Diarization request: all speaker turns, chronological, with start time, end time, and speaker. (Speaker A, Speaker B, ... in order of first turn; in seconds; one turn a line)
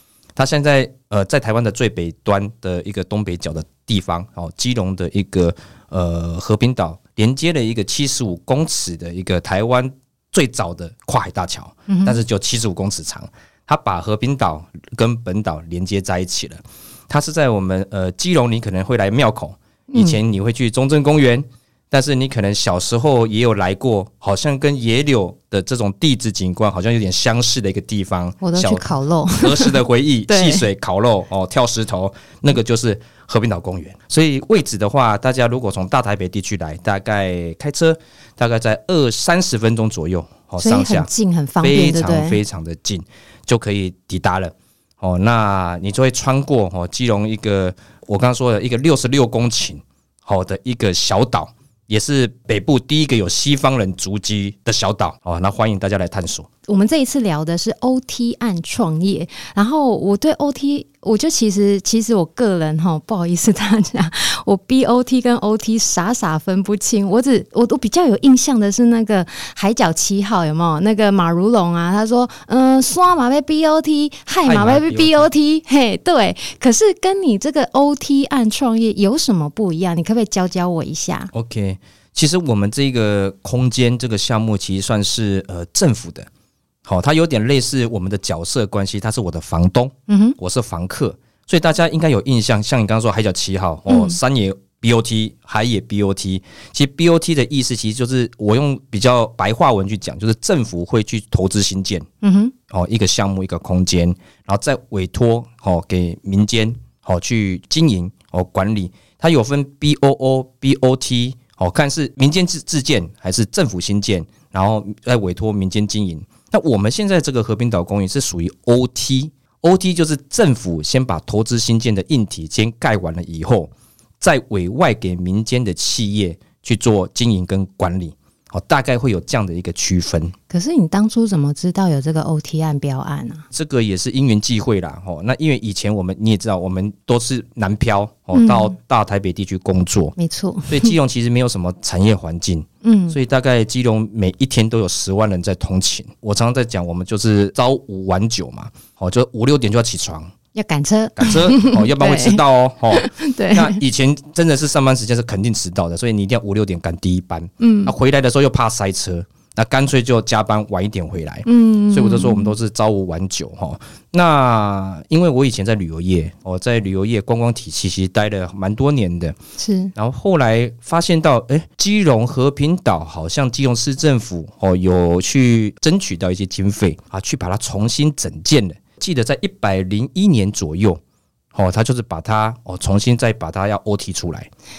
Speaker A: 0.4-41.1
Speaker B: 11.9-12.2
Speaker B: 19.9-20.2
Speaker B: 28.4-30.7
Speaker B: 40.6-42.4
Speaker A: 41.6-56.5
Speaker B: 56.7-81.3
Speaker A: 74.5-75.3
Speaker A: 81.3-86.3
Speaker A: 86.9-102.1
Speaker B: 90.1-90.4
Speaker B: 93.9-94.2
Speaker B: 102.2-102.5
Speaker A: 102.7-130.3
Speaker B: 130.5-133.4
Speaker A: 133.5-140.2
Speaker B: 138.3-138.8
Speaker B: 140.2-141.0
Speaker A: 140.7-150.3
Speaker B: 142.8-143.2
Speaker B: 150.5-153.8
Speaker A: 151.2-169.4
Speaker B: 157.6-157.9
Speaker B: 161.5-162.5
Speaker B: 169.6-169.9
Speaker A: 169.9-181.0
Speaker A: 181.5-184.5